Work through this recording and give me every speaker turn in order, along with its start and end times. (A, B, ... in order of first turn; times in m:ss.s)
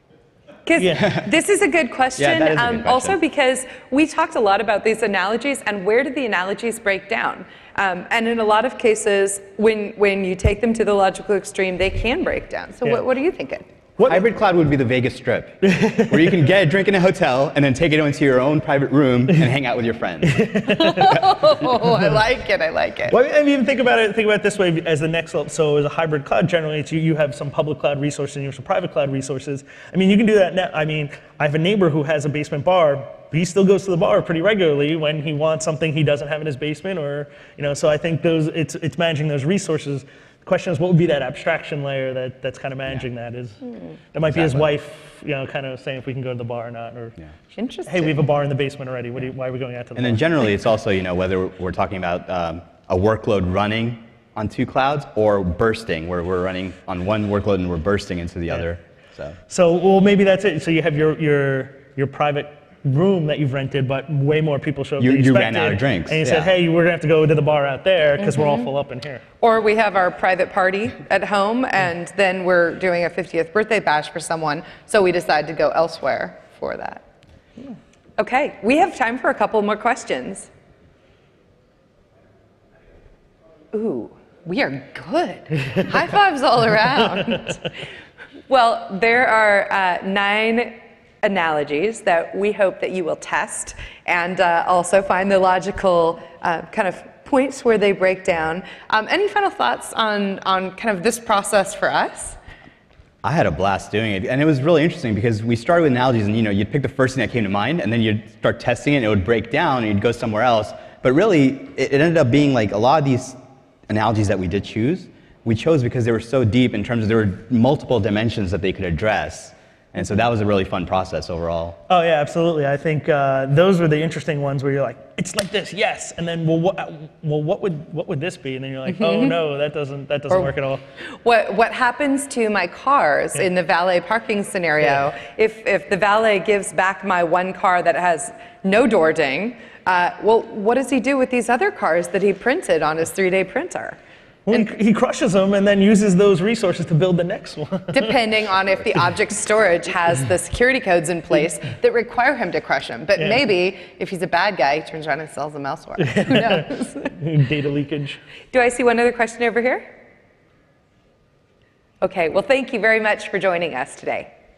0:00.7-0:13.7 A
0:00.8-0:01.2 B
0:02.2-0:03.2 C
0:14.0-0:20.6 C
0:15.6-0:16.3 B
0:20.3-0:21.3 B
0:20.7-0:23.2 A
0:23.1-0:47.2 B
0:44.3-0:44.7 C
0:47.5-0:48.2 A
0:47.9-0:50.3 B
0:50.0-0:59.4 C
0:59.5-1:09.2 B
1:05.0-1:06.5 C
1:08.2-1:08.7 A
1:09.4-1:17.0 A
1:18.2-1:20.5 A
1:23.7-1:27.7 A
1:28.5-1:42.4 A
1:43.2-1:53.4 C
1:53.9-2:01.8 C
2:01.9-2:10.8 B
2:08.9-2:09.4 A
2:11.2-2:24.0 A
2:24.5-2:28.2 B
2:27.9-2:37.1 A
2:36.0-2:38.2 B
2:38.5-2:39.9 A
2:42.0-2:44.3 A